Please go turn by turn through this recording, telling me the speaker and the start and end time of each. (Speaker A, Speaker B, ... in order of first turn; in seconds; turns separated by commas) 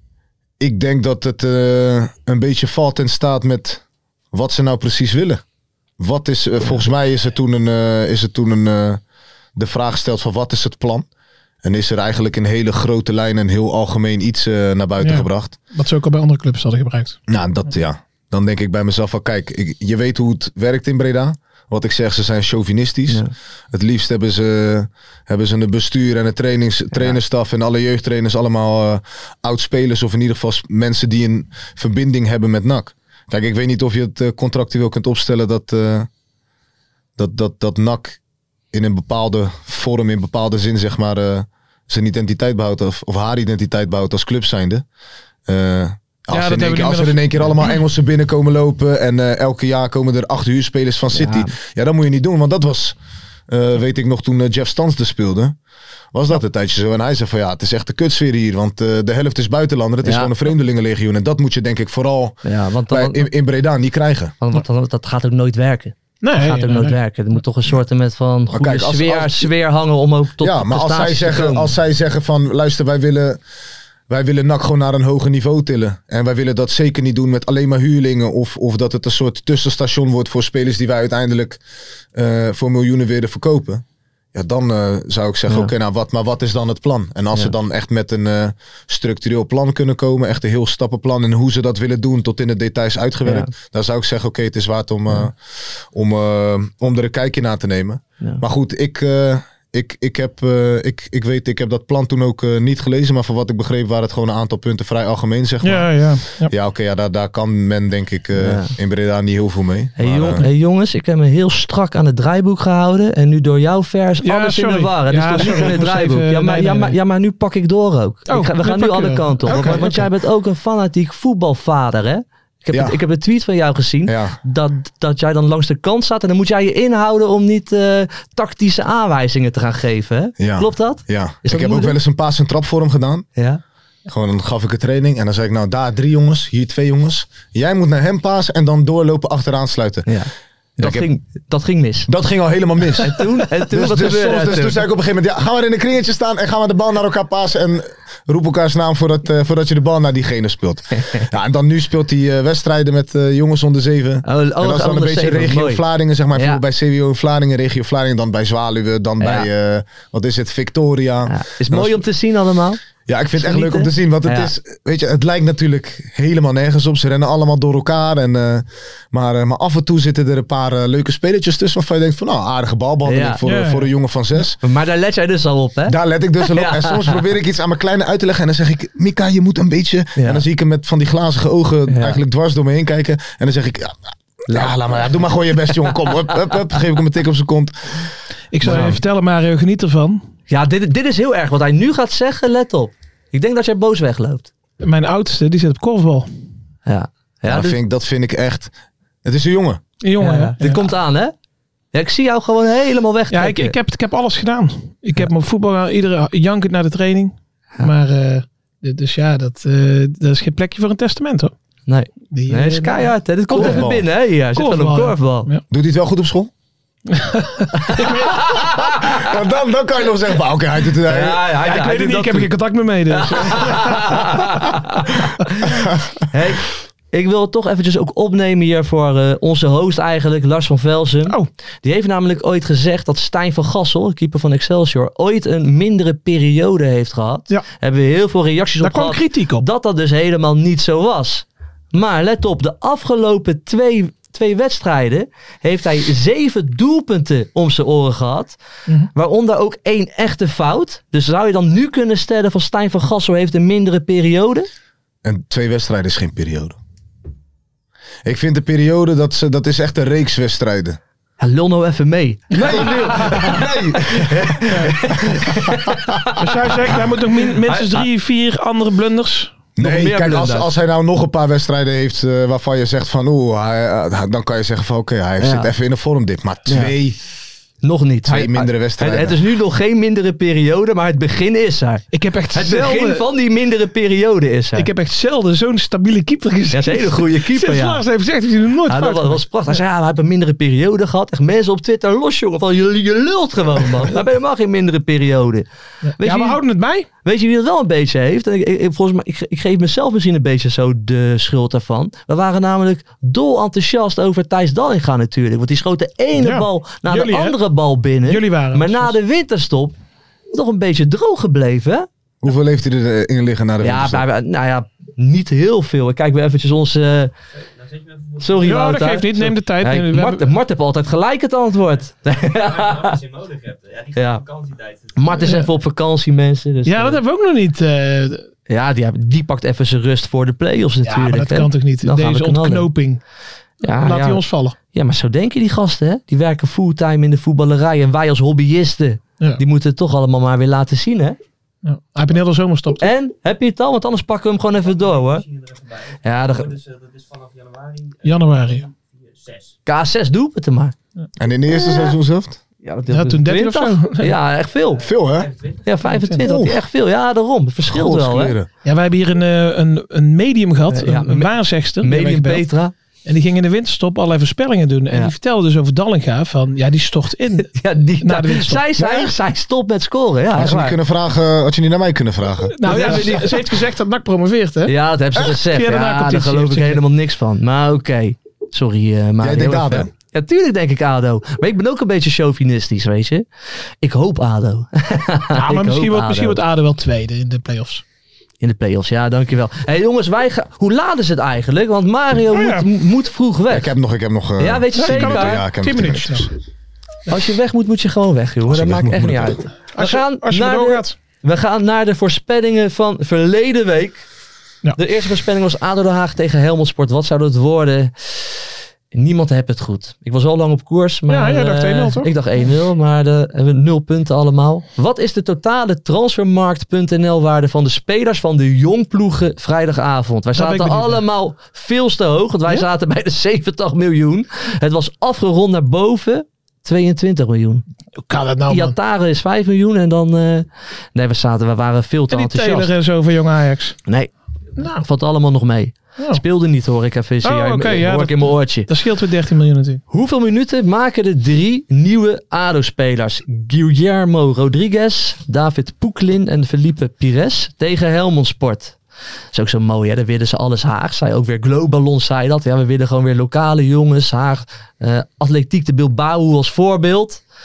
Speaker A: 0.6-5.4, Speaker A: 6.0-9.0, Speaker A: 9.6-11.1, Speaker A: 11.6-15.5, Speaker B: 15.0-17.2, Speaker A: 17.3-36.1, Speaker A: 37.2-38.2, Speaker A: 38.7-44.9, Speaker A: 45.5-53.0, Speaker B: 46.3-47.5, Speaker C: 51.1-51.5, Speaker A: 53.5-55.6, Speaker A: 56.1-64.4, Speaker C: 60.0-60.3, Speaker C: 62.4-63.3, Speaker C: 64.4-71.7, Speaker B: 66.2-67.0, Speaker A: 68.5-69.5, Speaker A: 70.4-73.4, Speaker A: 74.1-81.6, Speaker A: 82.1-110.4, Speaker C: 93.2-93.5, Speaker B: 105.6-106.5, Speaker C: 108.4-108.7, Speaker C: 110.0-132.0, Speaker B: 114.2-117.0, Speaker B: 118.3-120.1, Speaker A: 122.7-123.0, Speaker A: 124.1-124.4, Speaker A: 130.4-133.3, Speaker A: 134.1-140.1, Speaker C: 140.1-142.1, Speaker A: 140.8-141.1, Speaker A: 142.1-162.1, Speaker C: 143.0-144.8, Speaker C: 150.9-151.3, Speaker C: 154.2-155.8, Speaker C: 156.3-156.6, Speaker C: 159.2-159.5, Speaker C: 161.3-162.8, Speaker A: 163.1-174.6, Speaker C: 163.3-164.5, Speaker C: 173.1-173.4, Speaker B: 173.4-173.9, Speaker C: 174.6-177.2, Speaker A: 175.9-188.1, Speaker C: 180.2-180.4, Speaker C: 181.9-182.2, Speaker C: 184.5-185.1, Speaker B: 188.5-190.2, Speaker C: 188.6-189.0, Speaker C: 190.5-194.5, Speaker B: 194.8-196.3, Speaker C: 196.9-197.8, Speaker A: 197.5-198.7, Speaker A: 199.2-199.8, Speaker B: 200.0-200.9, Speaker C: 200.2-201.3, Speaker C: 201.9-203.8, Speaker B: 203.3-211.5, Speaker C: 211.9-215.5, Speaker B: 212.3-213.9, Speaker A: 213.5-214.1, Speaker B: 214.5-215.6, Speaker A: 215.7-216.5, Speaker B: 217.1-218.3, Speaker C: 217.9-219.2, Speaker A: 219.0-221.5, Speaker C: 221.1-222.5, Speaker B: 221.6-224.3, Speaker C: 223.1-225.7, Speaker C: 226.3-248.6, Speaker B: 238.8-239.7, Speaker C: 249.2-254.7, Speaker A: 255.2-256.8, Speaker A: 258.2-261.0, Speaker C: 261.4-266.7, Speaker B: 262.6-263.3, Speaker A: 262.7-264.6, Speaker B: 266.4-269.6, Speaker C: 267.7-268.1, Speaker A: 269.8-277.2, Speaker C: 269.8-270.7, Speaker C: 275.4-275.7, Speaker C: 276.7-276.9, Speaker C: 277.8-284.9, Speaker A: 278.3-279.4, Speaker B: 282.1-283.3, Speaker B: 284.8-289.8, Speaker C: 286.7-288.0, Speaker C: 288.9-295.7, Speaker B: 296.1-297.1, Speaker C: 296.2-296.6, Speaker C: 297.2-310.0, Speaker B: 306.4-307.6, Speaker B: 308.3-309.1, Speaker C: 310.5-312.1, Speaker A: 312.4-314.2, Speaker C: 313.8-317.3, Speaker D: 317.5-318.9, Speaker C: 318.4-323.2, Speaker B: 318.6-320.5, Speaker D: 322.3-325.5, Speaker C: 324.1-324.4, Speaker C: 325.2-327.2, Speaker B: 325.4-325.7, Speaker B: 326.9-328.5, Speaker C: 328.7-332.9, Speaker B: 331.1-333.2, Speaker C: 333.8-341.4, Speaker B: 333.9-334.8, Speaker B: 341.8-343.1, Speaker C: 343.0-345.4, Speaker D: 344.8-349.8, Speaker C: 346.2-346.8, Speaker B: 348.2-348.9, Speaker C: 349.9-350.9, Speaker A: 351.4-352.6, Speaker C: 352.8-355.1, Speaker B: 353.1-354.4, Speaker D: 354.8-356.1, Speaker A: 355.0-355.5, Speaker C: 355.9-358.6, Speaker B: 356.1-356.4, Speaker A: 356.4-356.8, Speaker A: 357.9-358.7, Speaker B: 358.9-362.7, Speaker C: 360.9-362.9, Speaker B: 363.3-368.9, Speaker C: 367.7-371.0, Speaker A: 369.0-369.3, Speaker A: 370.5-373.4, Speaker B: 372.8-377.0, Speaker C: 372.8-373.8, Speaker C: 374.9-383.5, Speaker A: 379.4-380.1, Speaker C: 384.0-386.6, Speaker B: 385.6-388.0, Speaker C: 388.6-393.9, Speaker B: 392.5-392.9, Speaker A: 393.7-396.5, Speaker C: 394.6-395.6, Speaker B: 394.9-396.5, Speaker C: 397.3-404.2, Speaker A: 398.7-399.6, Speaker B: 399.9-401.2, Speaker C: 405.0-408.6, Speaker C: 409.1-427.8, Speaker B: 411.3-412.3, Speaker B: 420.6-421.2, Speaker B: 428.2-429.0, Speaker C: 428.7-432.9, Speaker B: 432.3-434.0, Speaker C: 434.1-438.9, Speaker B: 434.8-435.1, Speaker B: 437.4-440.0, Speaker C: 440.1-449.0, Speaker C: 449.5-457.4